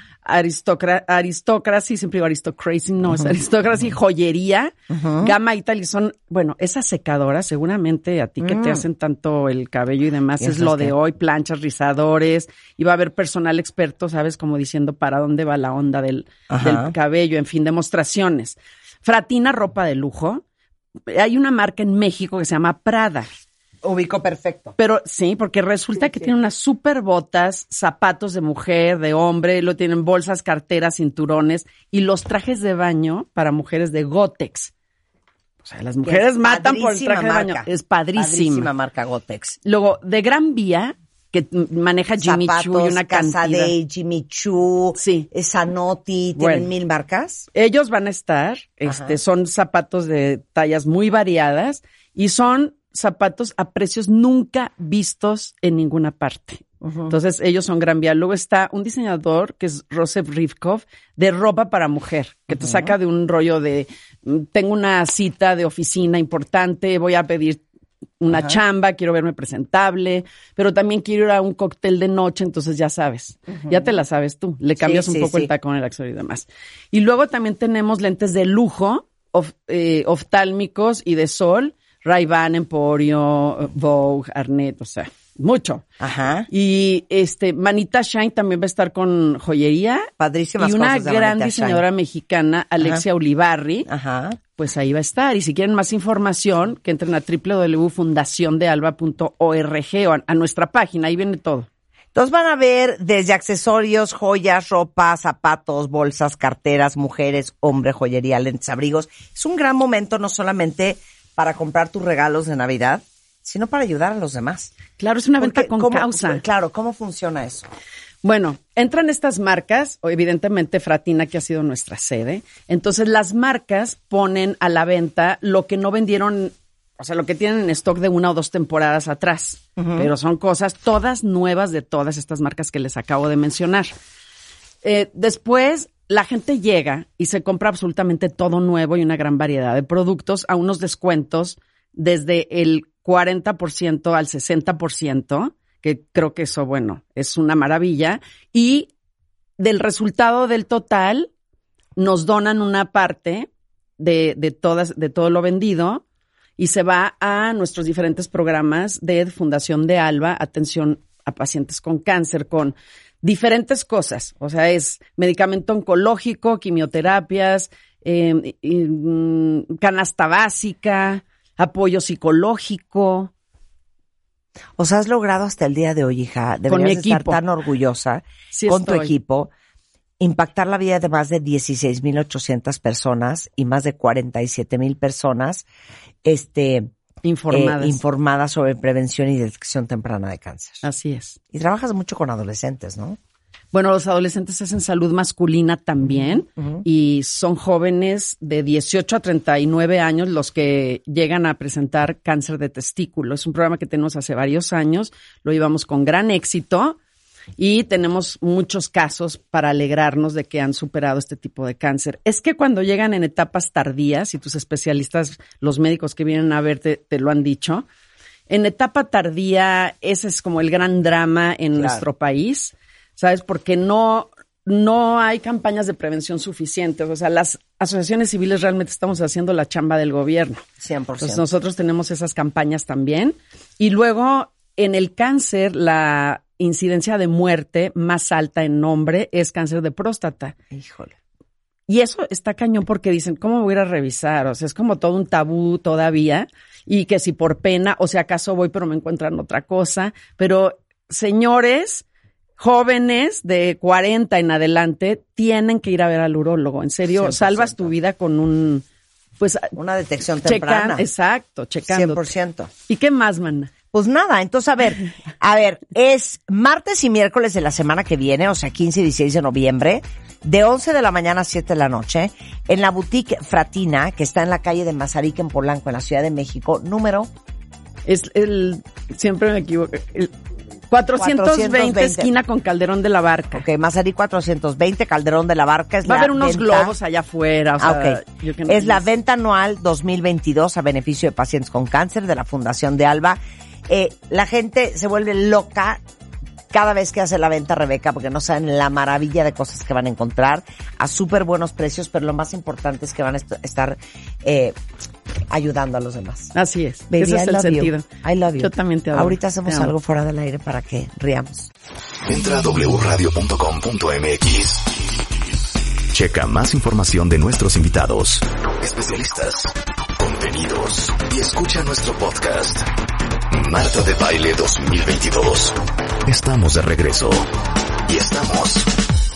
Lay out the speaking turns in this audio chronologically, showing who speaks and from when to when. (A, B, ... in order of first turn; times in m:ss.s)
0:00.2-0:20.4 A
0:04.9-0:05.3 B
0:08.4-0:08.8 B
0:10.4-0:10.9 B
0:16.5-0:16.9 B
0:21.1-0:23.3 A
0:23.8-0:24.7 B
0:24.8-0:34.7 A
0:35.6-0:38.7 A
0:36.0-0:39.6 B
0:39.6-0:43.7 A
0:42.2-0:47.5 B
0:45.0-0:45.3 A
0:46.4-0:46.7 A
0:47.5-1:07.6 A
0:48.8-0:49.1 B
0:56.8-0:57.1 B
1:02.5-1:02.9 B
1:08.2-1:25.8 A
1:14.8-1:15.5 B
1:26.0-1:26.5 B
1:26.5-1:30.1 A
1:30.2-1:31.8 B
1:30.6-1:33.9 A
1:33.9-1:34.4 B
1:34.5-1:41.7 A
1:42.1-1:54.7 B
1:54.9-1:56.4 A
1:55.4-1:57.7 B
1:58.2-2:13.9 A
2:09.8-2:10.1 B
2:14.8-2:28.9 A
2:29.6-2:31.3 A
2:32.0-2:33.5 A
2:34.0-2:36.0 A
2:36.6-2:53.3 A
2:54.8-2:59.5 B
2:56.7-2:57.4 A
2:58.5-2:59.1 A
3:00.2-3:05.7 B
3:06.2-3:06.9 B
3:07.2-3:08.0 A
3:07.5-3:10.8 B
3:10.8-3:11.4 A
3:11.5-3:13.2 B
3:13.7-3:27.0 A
3:16.1-3:16.8 B
3:27.6-3:37.8 A
3:38.5-3:50.6 A
3:50.8-3:51.4 B
3:51.2-4:00.6 A
4:00.7-4:01.1 B
4:01.9-4:12.0 A
4:12.6-4:18.8 A
4:17.2-4:17.9 B
4:19.4-4:19.8 A
4:19.8-4:21.0 B
4:20.4-4:22.2 A
4:21.9-4:22.7 B
4:22.8-4:23.7 A
4:23.9-4:37.3 B
4:38.0-4:40.3 A
4:40.9-4:43.6 A
4:41.2-4:42.3 B
4:43.6-4:46.9 B
4:46.0-4:49.0 A
4:47.8-4:56.0 B
4:56.7-5:04.7 B
5:05.5-5:06.5 B
5:06.5-5:09.9 A
5:07.1-5:11.7 B
5:12.3-5:14.8 C
5:16.1-5:22.8 C
5:23.5-5:27.4 C
5:28.1-5:28.9 C